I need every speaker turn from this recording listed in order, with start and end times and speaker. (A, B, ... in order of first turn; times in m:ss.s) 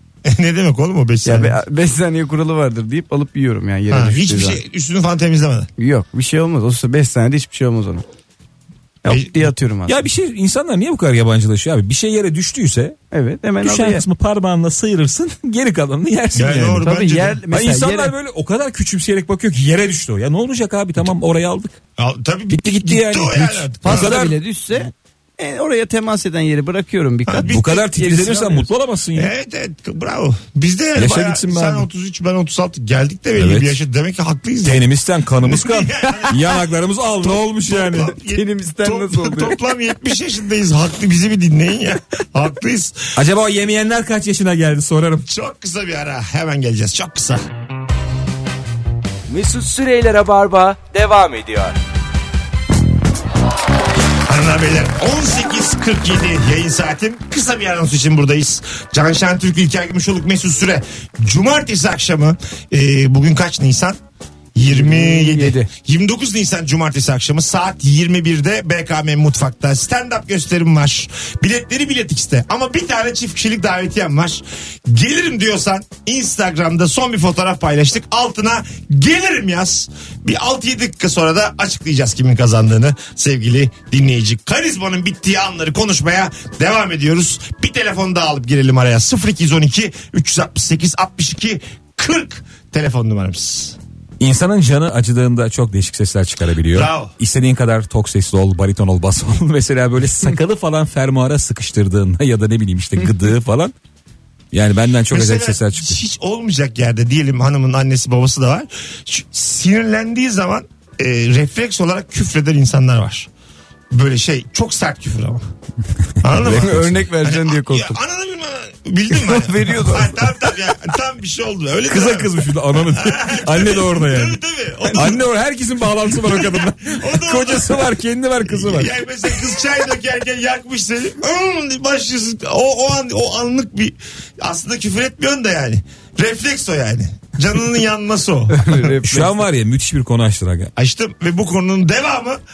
0:00.2-0:01.6 A
0:01.2-0:04.6 B
0:03.9-0:05.7 A
0:05.8-0:08.0 B
0:09.0-0:10.0 B
0:09.0-0:09.5 A
0:09.9-0:13.0 C
0:13.1-0:14.0 B
0:13.6-0:16.8 C
0:16.3-0:17.4 A
0:16.8-0:18.1 B
0:17.5-0:21.8 C
0:22.0-0:24.2 A
0:22.5-0:24.4 C
0:23.8-0:28.7 B
0:27.2-0:27.8 A
0:27.5-0:29.3 C
0:29.1-0:34.8 A
0:31.0-0:31.8 C
0:33.4-0:33.8 C
0:34.6-0:38.1 C
0:35.4-0:36.7 A
0:37.2-0:43.2 A
0:38.2-0:39.6 B
0:43.1-0:45.2 C
0:45.2-0:47.4 A
0:49.3-0:51.8 D
0:54.2-1:04.0 A
1:04.5-1:33.8 A
1:04.6-1:05.7 B
1:34.2-1:43.7 C
1:36.7-1:37.1 A
1:44.5-1:46.0 C
1:45.1-1:53.3 A
1:53.9-1:55.4 A
1:56.2-2:05.2 A
1:56.4-1:56.9 C
1:56.5-1:58.0 B
1:59.1-2:00.2 B
2:01.9-2:04.4 C
2:04.9-2:08.9 C
2:06.1-2:07.9 A
2:08.4-2:18.8 A
2:18.5-2:19.4 B
2:19.0-2:20.7 C
2:20.8-2:22.4 A